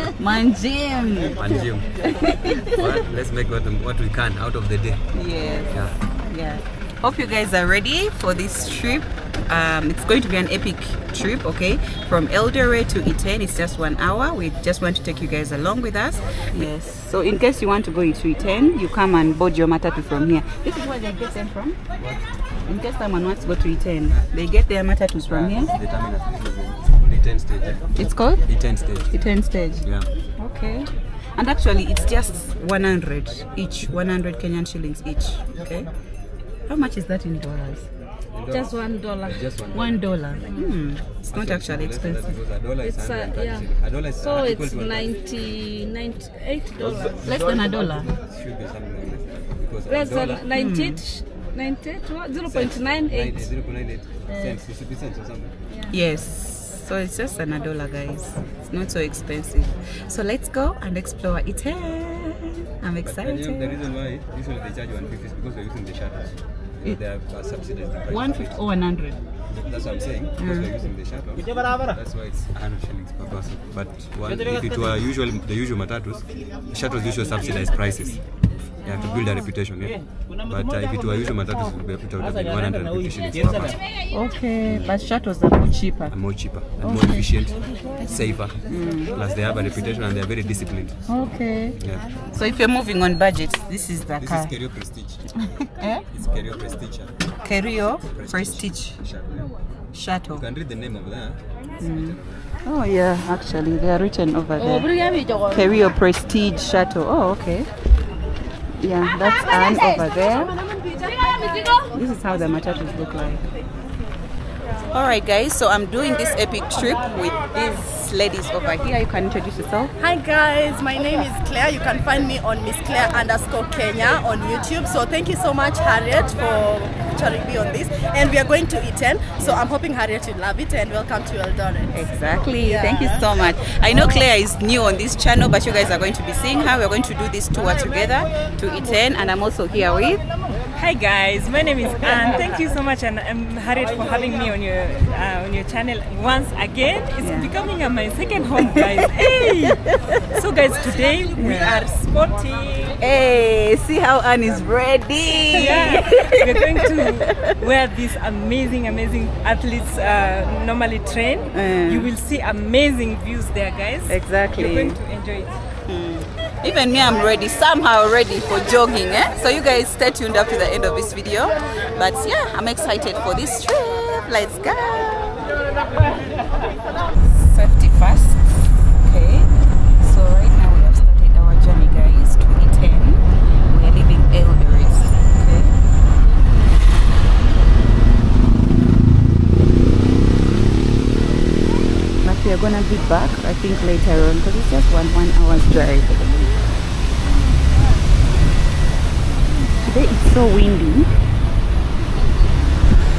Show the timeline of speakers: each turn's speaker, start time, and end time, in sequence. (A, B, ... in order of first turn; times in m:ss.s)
0:00.2-0:02.9 A
0:01.4-0:01.9 B
0:02.7-0:05.0 B
0:05.1-0:21.8 A
0:22.0-0:22.2 B
0:22.7-0:25.7 A
0:25.3-0:29.1 B
0:28.0-0:28.5 A
0:29.1-0:29.9 A
0:30.4-0:35.9 A
0:36.7-0:37.9 A
0:38.3-0:40.0 B
0:38.5-0:39.5 C
0:39.7-0:42.4 A
0:40.4-0:40.8 C
0:41.3-0:45.1 B
0:42.8-0:47.3 C
0:46.8-0:50.5 B
0:47.2-0:48.1 A
0:49.9-0:53.5 C
0:50.5-0:51.0 A
0:52.5-0:55.6 B
0:54.3-0:54.6 C
0:55.7-0:56.0 C
0:55.9-1:03.8 A
1:03.0-1:08.6 B
1:08.1-1:09.2 A
1:09.5-1:18.2 B
1:10.4-1:10.7 A
1:18.8-1:23.8 B
1:18.9-1:19.2 A
1:24.1-1:26.2 A
1:24.6-1:25.0 B
1:26.1-1:31.0 B
1:26.8-1:27.3 A
1:28.0-1:29.2 A
1:31.0-1:31.8 A
1:31.8-1:32.0 B
1:32.3-1:34.5 A
1:34.2-1:35.3 B
1:35.4-1:36.0 A
1:36.1-1:37.1 B
1:37.4-1:39.0 A
1:38.0-1:39.5 B
1:39.9-1:40.4 A
1:40.3-1:42.3 B
1:41.8-1:44.9 A
1:44.6-1:45.9 C
1:45.5-1:47.7 A
1:48.8-1:50.6 A
1:49.1-1:52.0 C
1:51.9-1:53.4 A
1:54.9-1:59.9 A
2:00.0-2:13.3 D
2:11.9-2:20.2 A
2:20.8-2:33.0 E
2:22.0-2:22.5 A
2:27.2-2:27.5 A
2:29.9-2:30.2 A
2:31.4-2:31.8 A
2:33.0-2:37.5 A
2:35.5-2:45.6 E
2:41.5-2:42.1 A
2:44.1-2:45.0 A
2:45.9-2:55.4 A
2:57.2-3:05.7 A
3:12.2-3:16.4 A
3:19.8-3:21.1 A